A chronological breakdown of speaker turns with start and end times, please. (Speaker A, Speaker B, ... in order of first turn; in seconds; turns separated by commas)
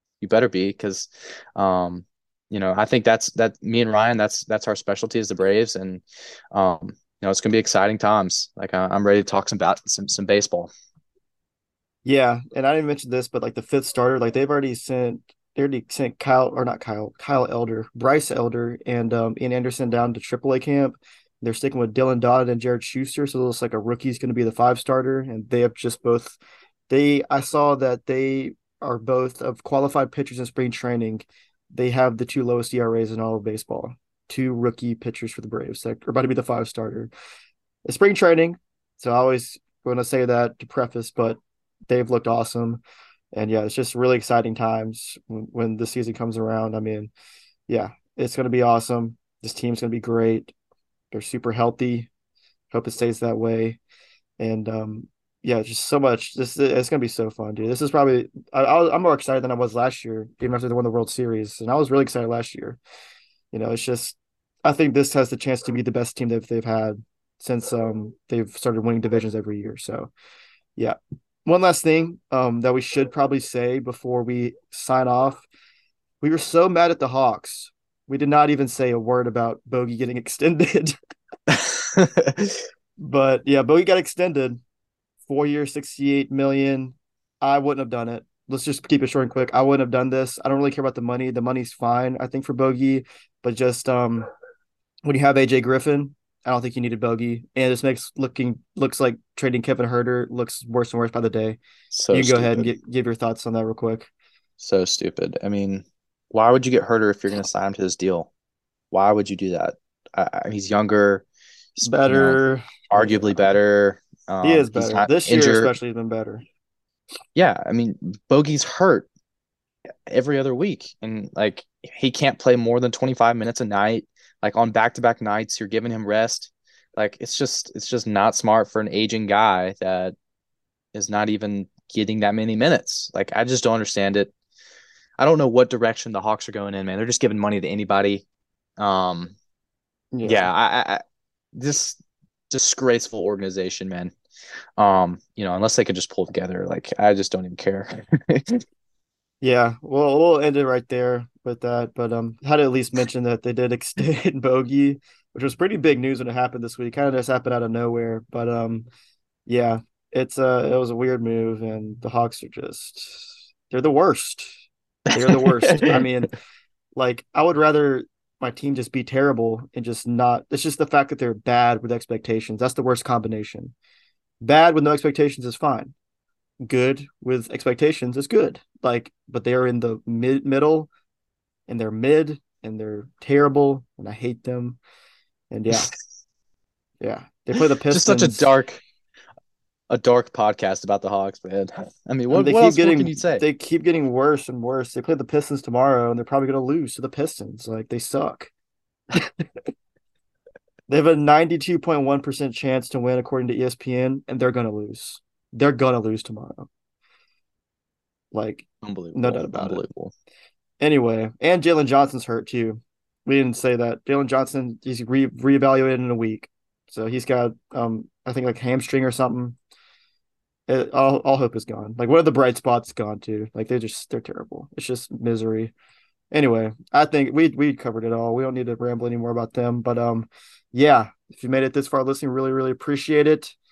Speaker A: 0.2-10.7, Speaker B: 12.1-26.4, Speaker B: 26.9-37.1, Speaker B: 37.9-42.8, Speaker B: 43.4-47.1, Speaker B: 47.7-50.5, Speaker B: 51.1-52.1, Speaker B: 52.7-53.8, Speaker B: 54.4-62.8, Speaker B: 63.5-70.1, Speaker B: 70.8-75.4, Speaker B: 76.2-80.9, Speaker A: 81.5-82.6, Speaker B: 83.0-84.6, Speaker B: 85.3-94.3, Speaker B: 95.1-101.6, Speaker A: 101.9-102.7, Speaker B: 102.1-104.1, Speaker A: 104.6-108.3, Speaker A: 108.9-111.2, Speaker A: 111.8-112.4, Speaker B: 111.8-113.3, Speaker A: 112.9-115.7, Speaker B: 114.4-116.4, Speaker A: 117.4-119.1, Speaker A: 120.1-130.2, Speaker A: 130.9-134.3, Speaker A: 135.2-138.2, Speaker A: 138.8-139.3, Speaker B: 140.1-140.5, Speaker A: 140.2-141.0, Speaker A: 141.5-144.1, Speaker A: 144.8-148.6, Speaker B: 149.4-158.9, Speaker B: 159.5-164.6, Speaker B: 165.1-166.4, Speaker A: 165.3-166.0, Speaker B: 167.0-173.7, Speaker B: 174.4-175.9, Speaker B: 176.7-180.9, Speaker B: 181.7-184.8, Speaker B: 185.5-185.9, Speaker B: 187.0-188.5, Speaker A: 187.9-188.8, Speaker A: 189.9-193.4, Speaker B: 192.3-198.5, Speaker B: 200.9-206.7, Speaker B: 208.3-209.8, Speaker A: 208.8-210.1, Speaker B: 210.8-219.6, Speaker B: 220.7-225.7, Speaker B: 226.3-233.6